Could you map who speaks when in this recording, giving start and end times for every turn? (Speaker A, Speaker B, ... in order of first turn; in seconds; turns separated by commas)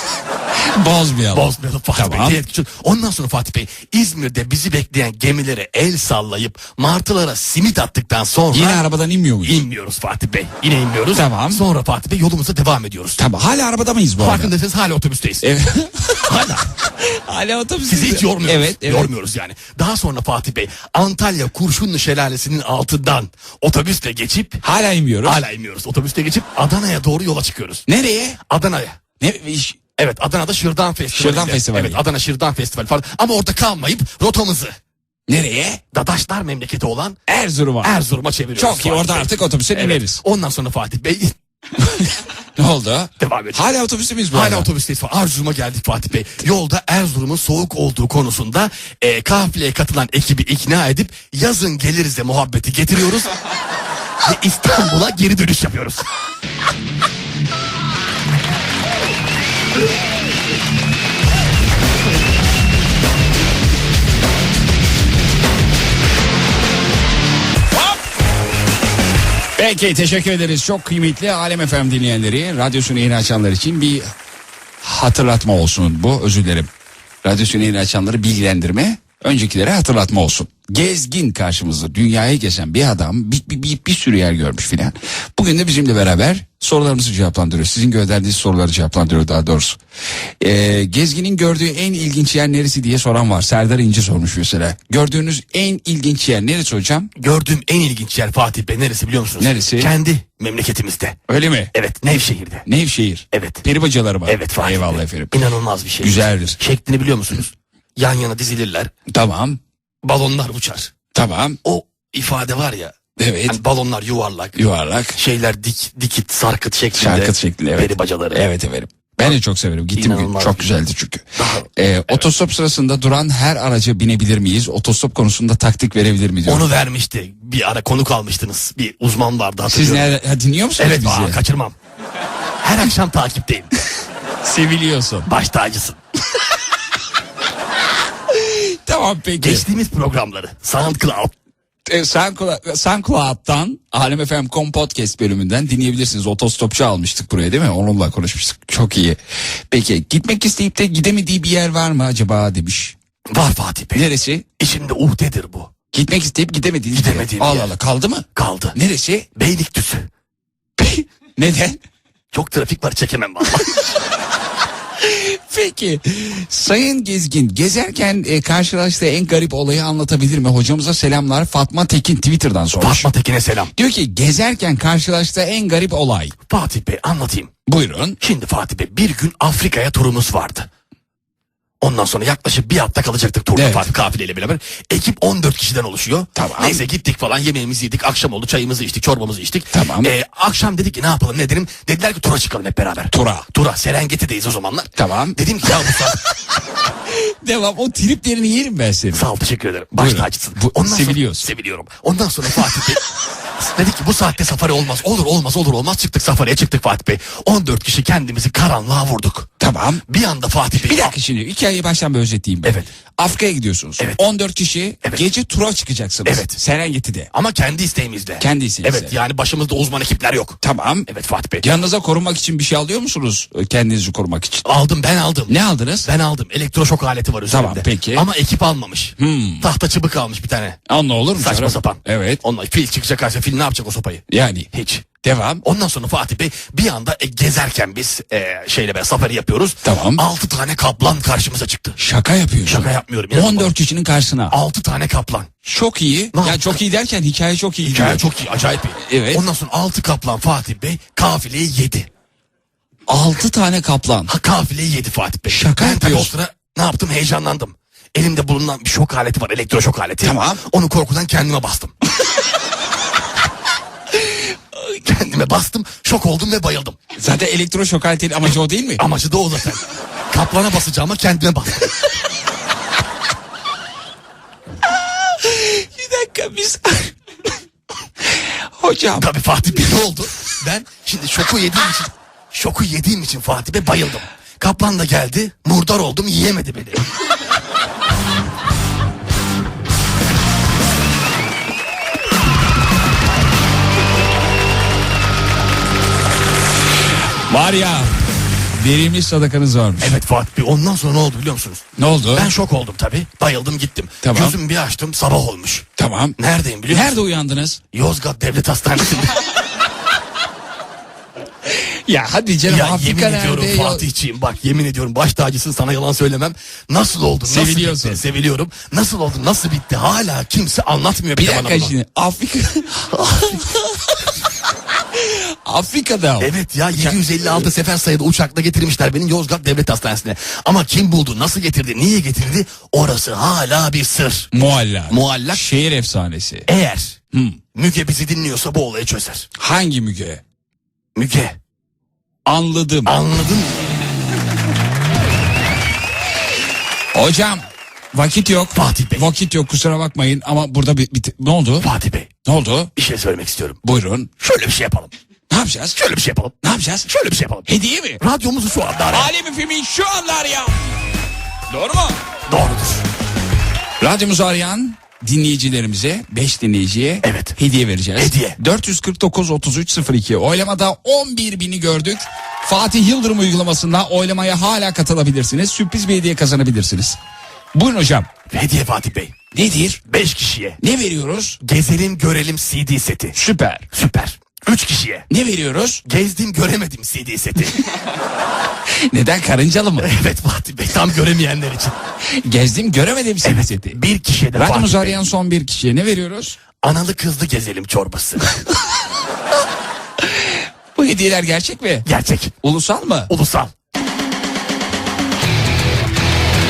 Speaker A: 0.7-2.4, Speaker B: 1.3-8.9, Speaker A: 8.5-9.7, Speaker B: 9.4-13.2, Speaker A: 11.1-11.6, Speaker A: 13.2-14.5, Speaker B: 14.2-15.5, Speaker A: 15.4-16.4, Speaker B: 16.2-16.7, Speaker A: 17.0-19.1, Speaker B: 17.9-24.6, Speaker A: 24.6-25.4, Speaker B: 25.2-27.9, Speaker A: 27.9-28.4, Speaker B: 28.4-29.0, Speaker A: 29.2-29.8, Speaker B: 30.0-34.7, Speaker A: 31.1-32.0, Speaker A: 35.3-35.8, Speaker B: 35.9-37.2, Speaker A: 37.3-38.0, Speaker B: 37.8-41.4, Speaker A: 38.6-40.2, Speaker A: 41.8-44.7, Speaker B: 43.2-43.7, Speaker B: 44.3-53.4, Speaker B: 54.2-56.1, Speaker A: 69.6-74.1, Speaker A: 74.8-76.7, Speaker A: 77.2-89.8, Speaker A: 90.4-97.1, Speaker B: 97.2-101.2, Speaker A: 99.4-99.9, Speaker A: 101.3-101.7, Speaker B: 101.7-102.7, Speaker A: 102.7-105.4, Speaker B: 103.3-103.7, Speaker B: 104.3-108.9, Speaker A: 106.0-106.6, Speaker A: 109.1-109.6, Speaker B: 110.0-110.9, Speaker A: 111.1-111.6, Speaker B: 111.7-114.6, Speaker A: 113.2-113.6, Speaker A: 114.6-115.2, Speaker B: 115.2-118.4, Speaker A: 117.0-126.7, Speaker B: 120.0-120.7, Speaker B: 121.4-122.2, Speaker B: 126.5-130.1, Speaker A: 129.7-131.4, Speaker B: 130.8-131.8, Speaker B: 132.6-133.7, Speaker A: 134.4-135.3, Speaker B: 135.3-136.0, Speaker A: 138.3-139.7, Speaker B: 139.4-141.3, Speaker A: 141.9-149.2, Speaker A: 149.7-153.0, Speaker B: 153.3-154.1, Speaker A: 153.9-154.5, Speaker B: 154.6-155.7, Speaker A: 155.9-159.3, Speaker B: 156.9-157.7, Speaker B: 158.3-158.8, Speaker B: 159.3-160.1, Speaker A: 160.8-161.8, Speaker B: 162.3-163.7, Speaker A: 165.0-173.1, Speaker B: 172.8-173.7, Speaker A: 173.8-176.3, Speaker B: 176.5-177.5, Speaker A: 177.7-178.2, Speaker B: 178.2-180.7, Speaker B: 181.8-196.2, Speaker A: 183.6-183.9, Speaker A: 186.3-186.8, Speaker A: 189.7-190.1, Speaker A: 193.1-193.5, Speaker A: 195.0-195.9, Speaker A: 197.1-199.2, Speaker B: 199.1-203.0, Speaker A: 200.0-201.5, Speaker B: 203.6-209.5, Speaker A: 209.6-210.0, Speaker B: 210.1-211.1, Speaker A: 210.9-217.3, Speaker B: 216.2-216.6, Speaker B: 217.3-221.7, Speaker A: 218.4-219.2, Speaker A: 220.6-221.1, Speaker A: 221.6-224.7, Speaker B: 224.7-230.8, Speaker A: 225.5-226.1, Speaker A: 227.5-228.3, Speaker A: 229.2-229.7, Speaker A: 230.9-232.4, Speaker B: 231.4-235.1, Speaker A: 234.3-234.7, Speaker A: 235.2-235.6, Speaker B: 235.6-242.0, Speaker A: 239.8-240.2, Speaker A: 242.0-244.6, Speaker B: 242.6-243.7, Speaker B: 244.5-245.5, Speaker A: 245.7-248.2, Speaker B: 246.3-246.8, Speaker B: 247.8-252.1, Speaker A: 249.0-249.4, Speaker A: 253.1-254.3, Speaker B: 254.3-261.9, Speaker A: 255.5-256.3, Speaker A: 260.2-260.6, Speaker A: 264.2-265.0, Speaker B: 265.0-267.0, Speaker A: 267.2-269.0, Speaker B: 269.0-272.0, Speaker A: 274.9-277.2, Speaker A: 278.2-279.3, Speaker B: 279.2-287.1, Speaker A: 297.5-298.1, Speaker A: 298.8-300.2, Speaker B: 300.0-307.2, Speaker A: 302.0-302.5, Speaker A: 304.2-304.6, Speaker A: 306.0-306.4, Speaker A: 306.9-307.8, Speaker B: 307.9-309.4, Speaker A: 311.7-314.1, Speaker B: 312.7-321.9, Speaker A: 317.4-318.2, Speaker A: 321.4-324.3, Speaker B: 323.1-323.6, Speaker A: 325.1-327.7, Speaker B: 326.4-334.5, Speaker A: 334.5-336.7, Speaker B: 335.1-335.7, Speaker B: 336.7-337.2, Speaker A: 337.3-337.6, Speaker B: 337.7-339.5, Speaker A: 339.6-340.4, Speaker B: 341.1-341.6, Speaker A: 342.5-343.2, Speaker B: 343.1-343.8, Speaker A: 347.1-351.9, Speaker B: 348.7-349.3, Speaker B: 351.8-352.3, Speaker A: 352.4-352.9, Speaker B: 352.9-353.8, Speaker A: 353.8-354.3, Speaker B: 354.4-355.1, Speaker A: 355.5-356.0, Speaker B: 356.0-356.6, Speaker A: 356.6-357.1, Speaker B: 357.1-357.7, Speaker A: 357.7-358.2, Speaker B: 358.2-359.3, Speaker A: 359.1-361.0, Speaker A: 361.7-362.2, Speaker B: 362.5-363.1, Speaker A: 364.0-377.2, Speaker B: 367.2-367.6, Speaker B: 368.2-368.6, Speaker A: 377.8-378.3, Speaker B: 378.5-379.4, Speaker A: 379.5-380.0, Speaker B: 380.1-380.8, Speaker A: 380.8-381.6, Speaker B: 381.6-383.4, Speaker A: 383.4-383.9, Speaker B: 383.9-385.3, Speaker A: 385.3-386.0, Speaker B: 386.1-387.8, Speaker A: 388.9-390.1, Speaker B: 390.0-392.0, Speaker A: 392.4-394.0, Speaker B: 393.4-395.2, Speaker A: 394.6-396.6, Speaker B: 396.8-398.5, Speaker A: 400.2-402.1, Speaker B: 402.1-402.5, Speaker A: 402.6-403.3, Speaker B: 403.3-403.7